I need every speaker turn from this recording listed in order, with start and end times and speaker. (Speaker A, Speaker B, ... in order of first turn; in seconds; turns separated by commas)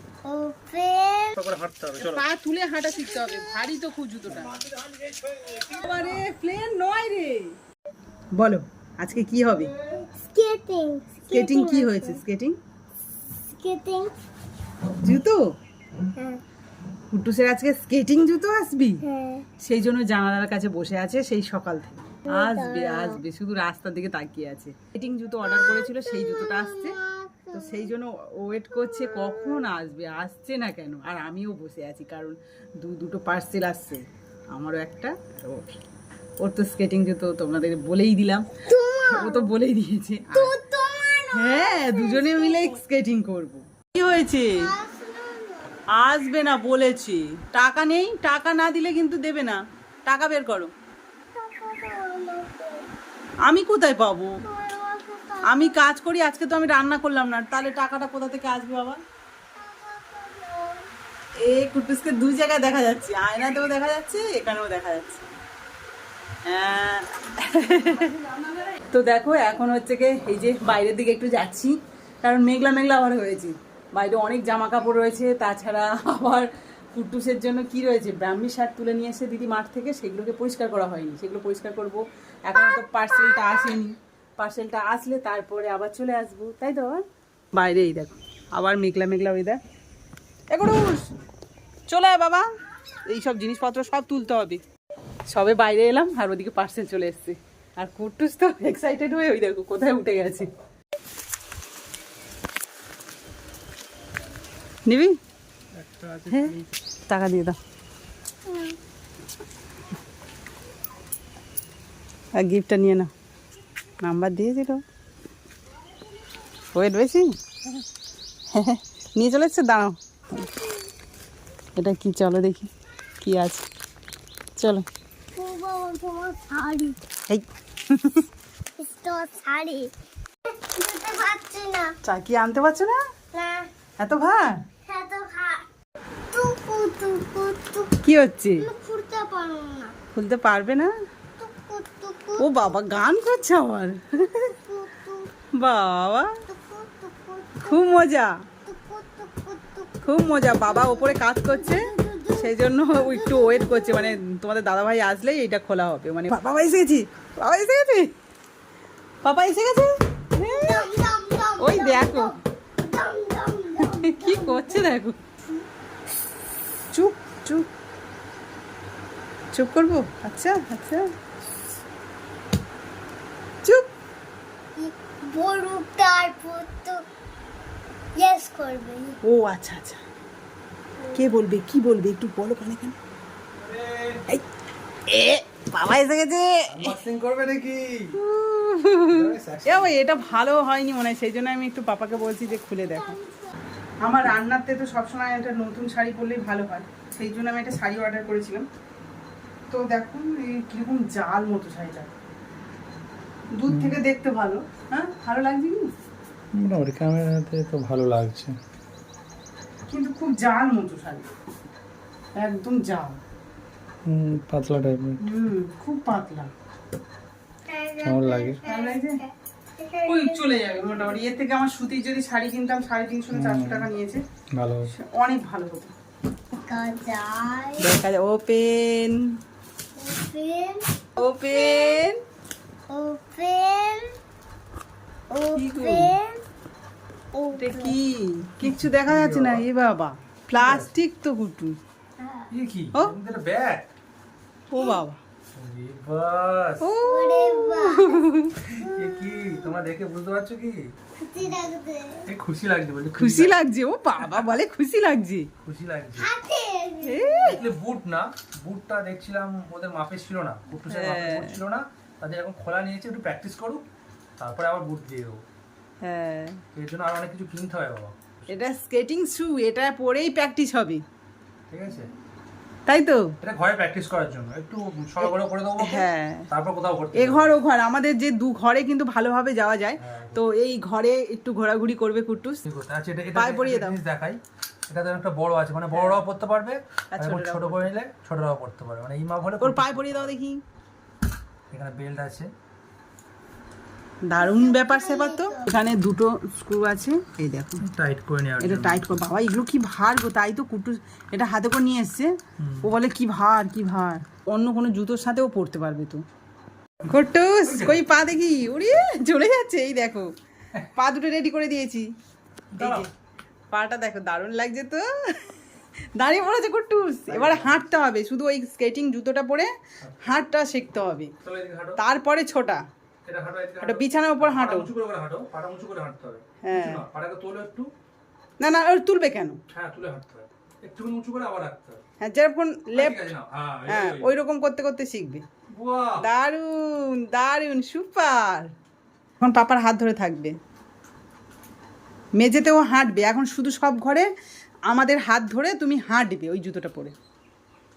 Speaker A: 0.2-1.4, Speaker B: 1.4-2.2, Speaker C: 2.0-4.6, Speaker A: 3.0-3.7, Speaker A: 5.1-6.2, Speaker C: 5.7-7.6, Speaker C: 8.3-9.8, Speaker A: 9.8-12.2, Speaker C: 11.3-12.6, Speaker A: 13.6-14.1, Speaker C: 15.0-15.4, Speaker A: 16.2-16.4, Speaker C: 17.1-19.0, Speaker A: 19.0-19.5, Speaker C: 19.6-27.0, Speaker A: 22.3-23.2, Speaker A: 25.4-27.9, Speaker C: 27.5-35.8, Speaker C: 36.4-38.5, Speaker A: 38.7-39.5, Speaker C: 39.1-40.5, Speaker A: 40.3-42.8, Speaker C: 41.3-44.6, Speaker A: 44.6-45.7, Speaker C: 46.0-50.7, Speaker A: 51.3-52.9, Speaker C: 53.5-54.4, Speaker A: 54.4-55.8, Speaker C: 55.4-59.0, Speaker A: 59.6-60.9, Speaker C: 61.4-65.2, Speaker C: 66.5-89.6, Speaker A: 82.6-83.7, Speaker C: 90.5-91.0, Speaker C: 91.9-92.5, Speaker C: 93.1-94.6, Speaker C: 95.3-100.5, Speaker C: 104.9-105.1, Speaker B: 105.8-106.7, Speaker C: 107.1-107.6, Speaker A: 108.5-108.8, Speaker C: 112.4-113.1, Speaker C: 114.0-114.8, Speaker C: 116.7-117.3, Speaker C: 118.5-120.4, Speaker C: 121.8-122.7, Speaker C: 123.2-123.7, Speaker C: 124.6-124.8, Speaker A: 125.3-127.0, Speaker C: 127.3-128.2, Speaker A: 128.8-129.9, Speaker A: 130.7-131.9, Speaker C: 132.0-133.0, Speaker A: 133.3-133.7, Speaker C: 134.0-134.6, Speaker A: 134.9-135.7, Speaker A: 136.3-138.0, Speaker C: 138.0-138.7, Speaker A: 138.6-139.9, Speaker C: 140.1-140.9, Speaker A: 141.4-142.7, Speaker C: 142.4-144.5, Speaker A: 144.4-145.3, Speaker C: 145.6-146.3, Speaker A: 146.5-147.8, Speaker C: 147.7-148.4, Speaker A: 148.7-154.2, Speaker C: 150.0-158.1, Speaker C: 159.2-160.9, Speaker A: 160.6-164.8, Speaker C: 161.6-162.3, Speaker C: 163.8-165.2, Speaker C: 166.9-167.7, Speaker C: 169.5-171.1, Speaker A: 174.8-177.0, Speaker A: 178.2-179.2, Speaker C: 179.2-180.0, Speaker C: 181.1-183.0, Speaker B: 183.6-184.2, Speaker C: 185.1-186.9, Speaker B: 186.7-188.2, Speaker C: 188.2-193.2, Speaker B: 189.1-189.9, Speaker A: 192.9-193.5, Speaker C: 194.0-198.7, Speaker C: 199.7-202.1, Speaker C: 203.5-205.9, Speaker B: 203.7-204.0, Speaker B: 206.5-208.6, Speaker C: 209.9-211.3, Speaker C: 212.3-213.2, Speaker B: 214.1-215.2, Speaker C: 215.2-216.5, Speaker A: 217.7-221.0, Speaker B: 218.0-218.6, Speaker C: 218.6-219.2, Speaker C: 220.0-224.2, Speaker B: 223.3-223.9, Speaker B: 224.6-224.9, Speaker C: 224.9-225.9, Speaker A: 226.5-227.8, Speaker C: 227.8-229.2, Speaker A: 230.0-232.1, Speaker C: 231.2-232.2, Speaker A: 232.9-234.1, Speaker A: 235.3-236.4, Speaker C: 235.5-236.1, Speaker A: 237.3-238.0, Speaker C: 237.6-241.8, Speaker B: 238.6-239.7, Speaker B: 240.6-240.9, Speaker A: 242.2-242.5, Speaker B: 242.5-243.9, Speaker C: 244.7-245.2, Speaker B: 245.6-246.8, Speaker C: 246.8-248.7, Speaker A: 247.0-248.2, Speaker B: 248.7-250.8, Speaker A: 248.8-249.6, Speaker A: 251.2-252.3, Speaker B: 252.3-253.5, Speaker C: 253.2-255.5, Speaker B: 254.2-254.5, Speaker B: 255.6-256.3, Speaker A: 256.2-257.6, Speaker C: 257.0-257.6, Speaker B: 257.4-263.8, Speaker C: 260.9-261.6, Speaker B: 264.4-265.4, Speaker C: 266.0-266.6, Speaker B: 266.7-268.6, Speaker C: 268.5-271.0, Speaker B: 271.7-272.1, Speaker C: 272.9-273.3, Speaker B: 273.4-277.6, Speaker C: 275.2-276.5, Speaker C: 277.1-282.6, Speaker B: 280.0-280.4, Speaker B: 282.7-290.4, Speaker C: 283.3-284.0, Speaker C: 285.9-286.2, Speaker C: 287.1-287.9, Speaker C: 289.6-290.6, Speaker B: 291.7-292.5, Speaker C: 294.3-297.8, Speaker A: 294.4-295.7, Speaker B: 297.8-299.1, Speaker C: 298.6-302.3, Speaker B: 302.6-302.9, Speaker C: 302.8-306.2, Speaker C: 307.1-310.3, Speaker B: 307.7-308.0, Speaker C: 310.9-312.1, Speaker B: 312.7-313.1, Speaker C: 312.8-313.1, Speaker C: 313.7-315.5, Speaker C: 316.1-319.7, Speaker B: 317.3-317.9, Speaker B: 320.0-320.4, Speaker C: 320.2-321.3, Speaker B: 321.4-322.0, Speaker C: 322.0-322.8, Speaker B: 323.2-327.9, Speaker C: 323.8-324.9, Speaker C: 326.6-327.0, Speaker C: 328.6-329.6, Speaker B: 329.7-332.0, Speaker C: 332.2-333.3, Speaker B: 332.9-334.3, Speaker C: 333.9-335.4, Speaker B: 335.7-336.2, Speaker C: 336.2-338.7, Speaker C: 339.4-340.5, Speaker C: 342.4-344.3, Speaker C: 344.9-347.2